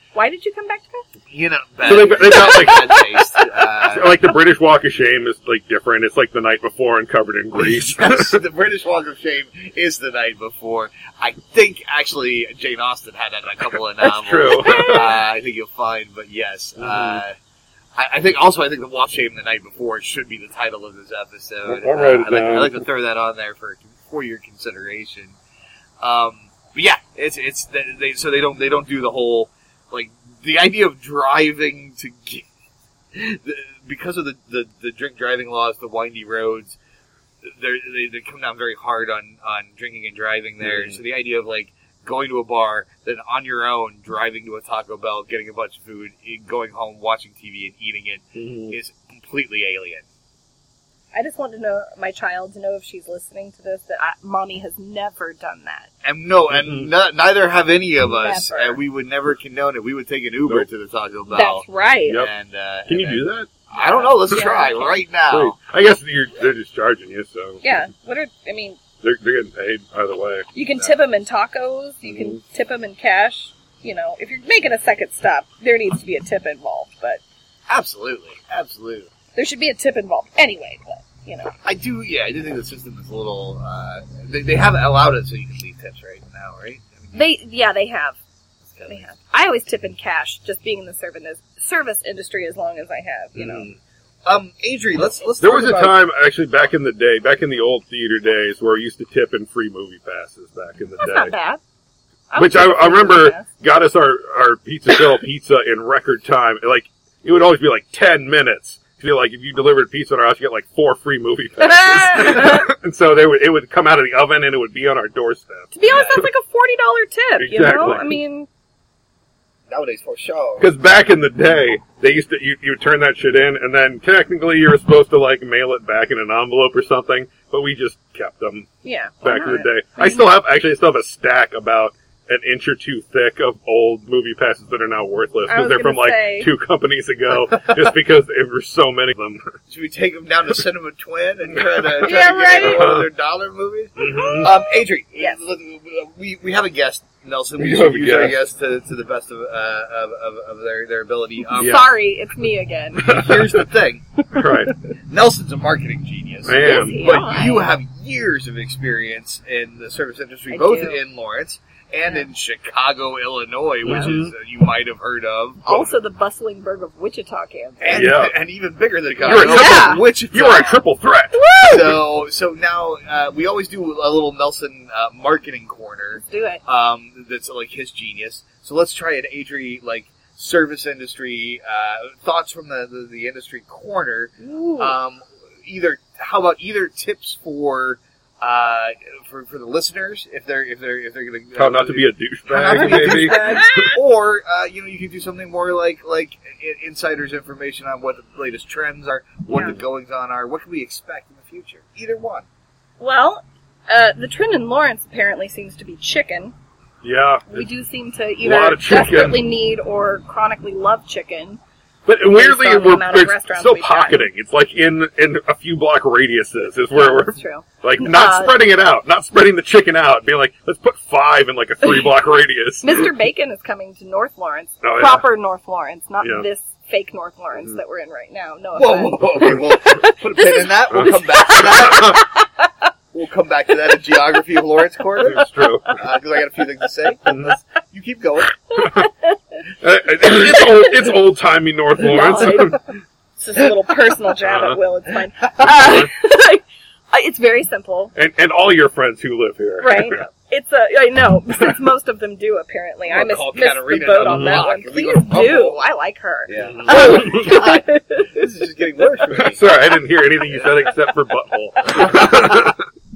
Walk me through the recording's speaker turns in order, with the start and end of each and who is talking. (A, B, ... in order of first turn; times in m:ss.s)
0:00.1-0:01.0 A
0:01.3-0:04.2 B
0:01.8-0:03.1 C
0:02.3-0:03.1 A
0:03.8-0:08.4 C
0:07.6-0:17.4 B
0:14.0-0:15.1 C
0:14.5-0:15.1 A
0:16.8-0:17.2 C
0:18.0-0:25.4 B
0:21.7-0:22.8 C
0:26.0-0:32.5 B
0:33.1-0:36.8 B
0:37.4-0:50.1 B
0:40.6-0:41.0 C
0:48.4-0:48.8 C
0:51.1-0:55.9 A
0:56.0-1:05.6 B
0:56.5-0:56.9 C
0:58.0-0:58.8 A
1:01.3-1:02.2 A
1:02.9-1:04.5 C
1:03.8-1:05.0 A
1:05.3-1:07.6 C
1:07.6-1:08.8 A
1:09.0-1:10.5 C
1:10.5-1:17.2 A
1:12.0-1:12.4 C
1:17.7-1:19.1 B
1:19.4-1:21.5 A
1:21.6-1:27.2 B
1:27.1-1:28.2 A
1:28.7-1:29.0 B
1:28.9-1:33.7 A
1:33.4-1:33.8 C
1:34.3-1:36.0 B
1:35.4-1:41.3 C
1:41.0-1:41.6 A
1:42.3-1:43.5 A
1:42.4-1:56.2 C
1:51.6-1:52.7 A
1:55.7-1:58.5 A
1:55.9-1:56.2 B
1:57.4-1:58.2 C
1:59.7-2:00.7 B
2:00.6-2:08.7 C
2:08.8-2:10.3 A
2:09.2-2:19.4 C
2:15.5-2:16.5 A
2:19.7-2:31.9 B
2:22.0-2:22.9 A
2:22.0-2:23.1 C
2:24.0-2:24.5 C
2:24.0-2:25.4 A
2:27.6-2:28.4 C
2:31.5-2:33.3 A
2:31.6-2:31.9 C
2:33.0-2:33.7 C
2:33.0-2:34.1 B
2:34.3-2:34.8 C
2:34.3-2:34.7 A
2:35.1-2:45.9 B
2:36.4-2:37.3 C
2:36.6-2:37.7 A
2:40.5-2:41.0 A
2:43.8-2:44.3 C
2:43.9-2:44.1 A
2:45.6-2:48.2 A
2:47.8-2:50.8 B
2:47.9-2:48.4 C
2:49.1-2:52.0 C
2:49.2-2:50.0 A
2:51.3-2:52.0 A
2:51.6-3:22.5 B
2:56.2-2:56.6 A
3:04.4-3:04.9 A
3:11.6-3:13.9 C
3:12.7-3:14.0 A
3:19.5-3:19.8 A
3:23.0-3:26.5 A
3:27.0-3:27.7 C
3:27.5-3:31.6 A
3:28.4-3:29.4 C
3:32.1-3:43.1 C
3:32.3-3:34.3 A
3:37.0-3:38.6 A
3:42.8-3:52.6 A
3:44.8-3:45.2 C
3:48.8-3:52.2 B
3:50.9-3:52.2 C
3:53.1-3:58.5 B
3:55.2-3:56.0 C
3:55.4-3:55.9 A
3:57.3-3:57.6 C
3:58.7-3:59.4 A
3:58.8-3:59.1 C
3:59.8-4:02.8 C
4:00.4-4:01.1 A
4:02.0-4:02.8 A
4:03.4-4:08.1 A
4:04.4-4:04.8 C
4:05.7-4:06.1 C
4:08.2-4:10.2 C
4:09.8-4:18.4 A
4:13.1-4:15.8 B
4:14.2-4:14.6 C
4:16.5-4:19.6 B
4:16.7-4:17.5 C
4:19.3-4:22.8 C
4:22.0-4:22.3 A